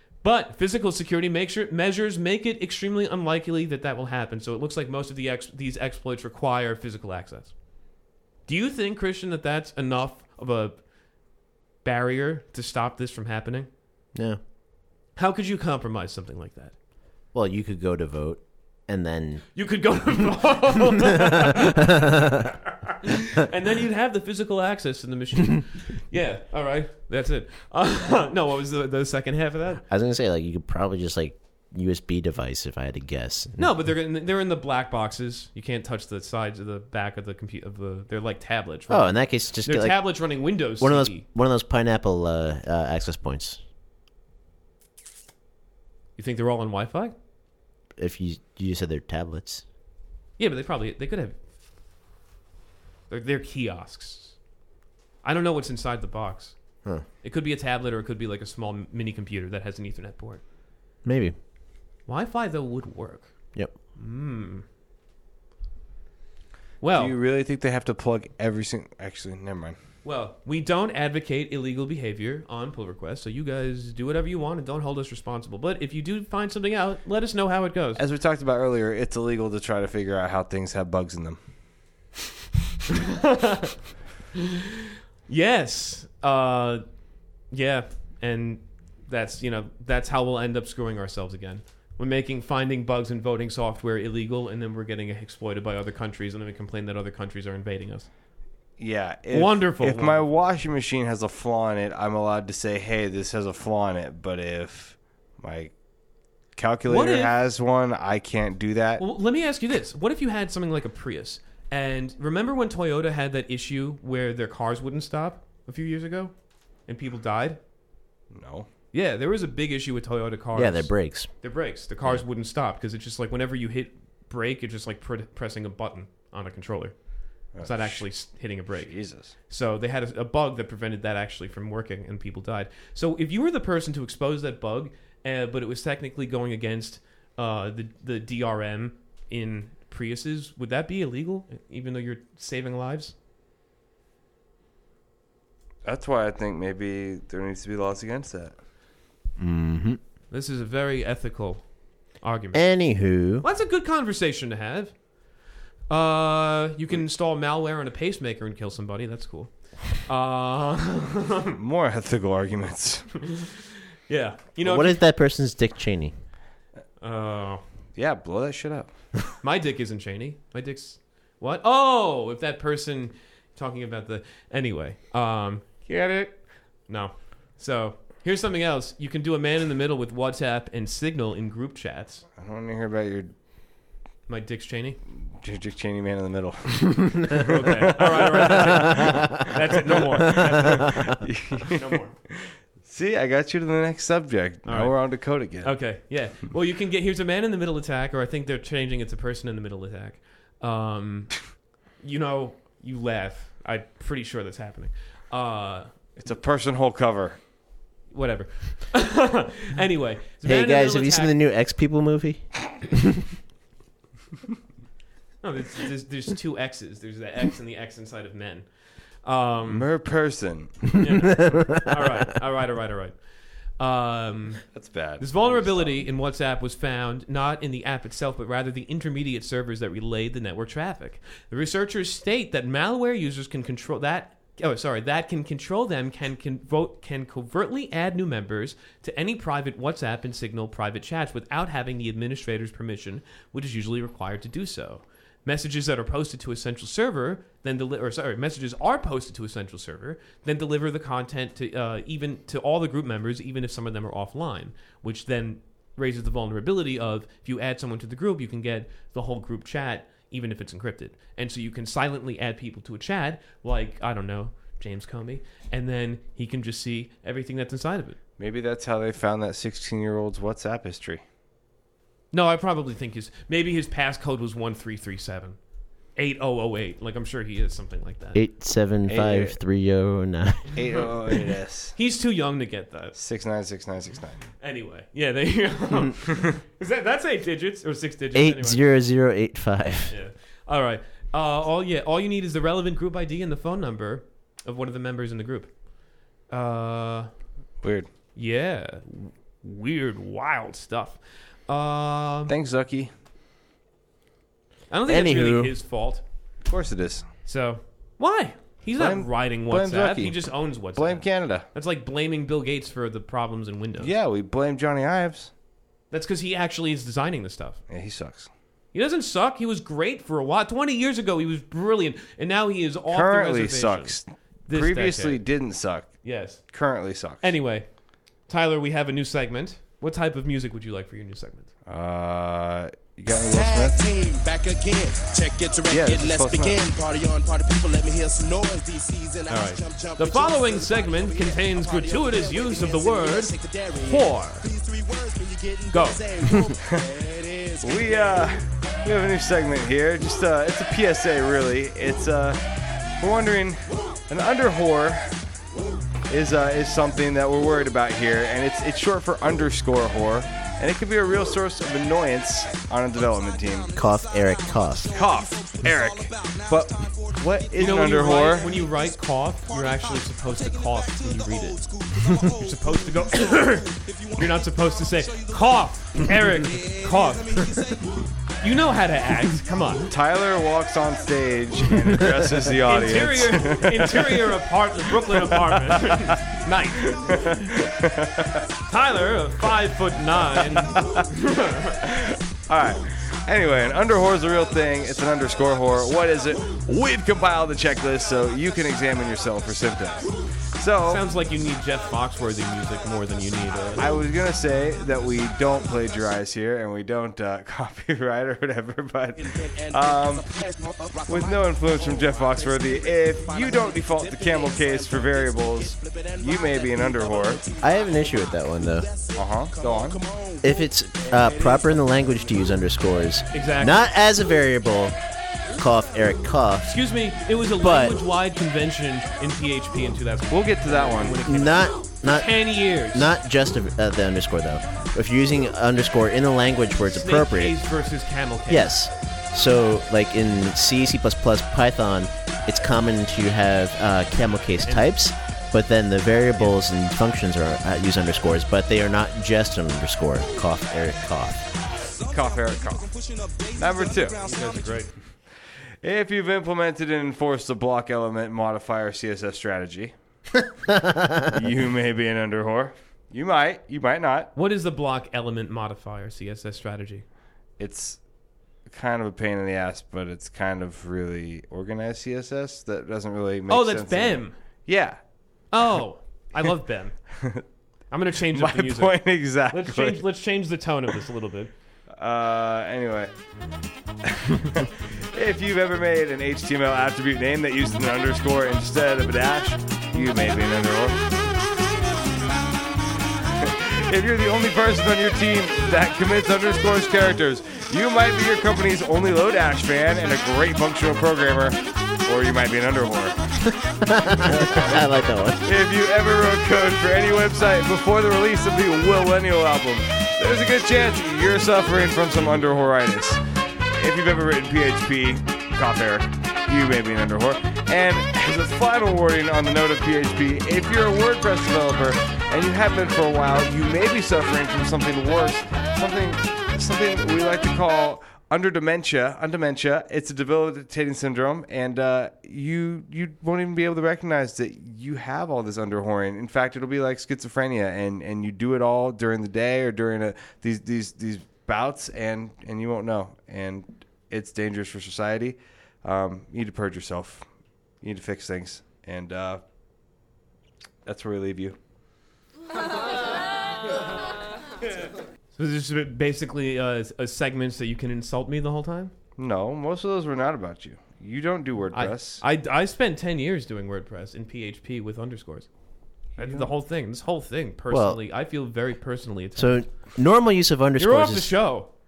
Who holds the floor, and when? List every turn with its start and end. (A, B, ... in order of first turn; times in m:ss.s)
0:00.2-0:07.5 A
0:08.5-0:10.8 A
0:11.8-0:13.7 A
0:14.2-0:14.4 B
0:15.2-0:16.8 A
0:17.3-0:19.4 B
0:19.6-0:22.3 A
0:21.2-0:22.5 B
0:22.8-0:29.8 A
0:29.9-0:33.7 B
0:33.6-0:41.2 A
0:38.9-0:40.0 B
0:40.8-0:43.6 B
0:46.2-0:47.2 A
0:48.0-0:49.6 B
0:50.4-0:51.4 A
0:53.1-0:54.4 A
0:55.2-0:56.6 A
0:57.2-1:00.4 A
1:01.0-1:01.4 B
1:02.1-1:03.3 A
1:04.0-1:04.6 A
1:06.8-1:07.1 A
1:07.0-1:09.8 C
1:10.0-1:18.0 A
1:18.0-1:21.4 C
1:22.9-1:23.8 A
1:24.4-1:26.8 A
1:27.5-1:38.1 A
1:38.8-1:45.7 C
1:39.3-1:40.2 A
1:46.6-1:49.0 C
1:46.9-1:47.3 A
1:49.0-1:56.3 A
1:56.9-1:57.6 A
1:58.3-1:58.7 C
1:58.9-2:07.0 A
2:00.6-2:01.3 B
2:07.5-2:08.1 C
2:07.6-2:08.9 A
2:08.7-2:09.4 C
2:09.5-2:23.2 A
2:25.8-2:28.6 C
2:29.4-2:30.0 B
2:30.3-2:31.6 A
2:32.2-2:32.7 A
2:32.5-2:33.4 B
2:33.4-2:34.9 A
2:35.9-2:41.6 A
2:41.6-2:43.1 C
2:43.2-2:45.0 A
2:44.6-2:46.1 B
2:47.0-2:47.6 A
2:48.0-2:48.9 C
2:49.4-3:02.2 A
3:02.4-3:03.3 C
3:04.3-3:05.0 A
3:05.4-3:12.3 C
3:07.3-3:12.2 A
3:08.8-3:09.2 B
3:12.8-3:15.7 C
3:14.7-3:14.9 A
3:15.6-3:21.4 A
3:22.0-3:25.9 A
3:26.2-3:27.4 C
3:28.1-3:31.3 A
3:30.4-3:33.3 B
3:35.4-3:38.7 A
3:39.2-3:39.8 A
3:39.7-3:40.9 C
3:41.0-3:43.2 A
3:43.8-3:44.6 A
3:44.7-3:45.9 C
3:45.2-4:28.2 A
4:28.4-4:31.2 C
4:32.3-4:35.6 A
4:36.2-4:38.4 A
4:38.4-4:40.8 B
4:39.1-4:39.6 C
4:40.7-4:42.0 C
4:42.0-4:43.2 A
4:43.2-4:44.5 C
4:44.6-4:48.8 A
4:48.3-4:50.1 B
4:50.1-4:55.7 A
4:56.5-4:57.3 A
4:57.8-4:58.1 C
4:58.4-5:02.5 A
5:02.5-5:03.1 C
5:04.9-5:06.2 A
5:05.1-5:05.7 B
5:06.7-5:07.3 C
5:07.5-5:14.1 A
5:09.0-5:11.7 C
5:14.0-5:15.5 C
5:16.1-5:17.8 A
5:17.9-5:18.5 C
5:18.9-5:25.4 A
5:23.1-5:27.5 C
5:26.2-5:26.6 A
5:27.4-5:27.9 A
5:28.5-5:31.7 A
5:31.9-5:34.0 C
5:33.5-5:48.5 D
5:35.9-5:36.8 C
5:39.5-5:44.7 A
5:45.9-5:46.2 A
5:46.8-5:47.2 C
5:47.8-5:52.6 C
5:53.2-5:55.4 C
5:56.3-6:03.9 C
6:03.4-6:18.3 D
6:04.0-6:05.2 B
6:05.1-6:08.6 C
6:07.8-6:11.8 A
6:12.6-6:17.7 A
6:18.6-6:20.1 A
6:20.1-6:24.4 C
6:21.8-6:22.2 D
6:22.8-6:27.2 A
6:25.2-6:26.4 C
6:27.0-6:28.7 C
6:28.9-6:32.0 A
6:30.7-6:31.2 C
6:32.0-6:41.2 C
6:41.0-6:44.1 A
6:44.0-6:50.5 C
6:49.4-7:02.7 D
6:51.3-6:57.6 C
6:57.8-6:59.1 B
6:59.4-7:00.2 C
7:00.6-7:05.2 B
7:03.5-7:04.1 A
7:05.8-7:07.0 B
7:06.9-7:13.4 A
7:07.8-7:08.2 B
7:10.5-7:11.4 C
7:11.4-7:17.8 B
7:17.0-7:18.9 A
7:18.7-7:31.6 B
7:24.8-7:25.1 A
7:32.0-7:35.1 D
7:32.3-7:33.1 C
7:33.8-7:34.5 C
7:34.4-7:35.1 A
7:36.0-7:40.1 C
7:41.4-7:44.5 C
7:44.6-7:47.2 A
7:47.8-7:48.2 C
7:48.9-7:55.2 C
7:53.7-7:54.6 A
7:55.7-7:57.1 A
7:58.1-7:59.2 A
7:58.5-8:00.2 C
7:59.7-8:01.7 A
8:02.2-8:03.3 C
8:04.2-8:11.2 C
8:13.6-8:23.4 C
8:23.7-8:25.7 B
8:24.6-8:25.0 C
8:25.6-8:33.4 C
8:33.9-9:07.5 C
9:08.0-9:09.6 C
9:11.1-9:11.8 C
9:15.6-9:19.1 A
9:19.4-9:22.4 C
9:21.9-9:25.7 A
9:26.4-9:29.8 A
9:27.9-9:28.2 B
9:29.6-9:31.5 B
9:31.0-9:31.9 A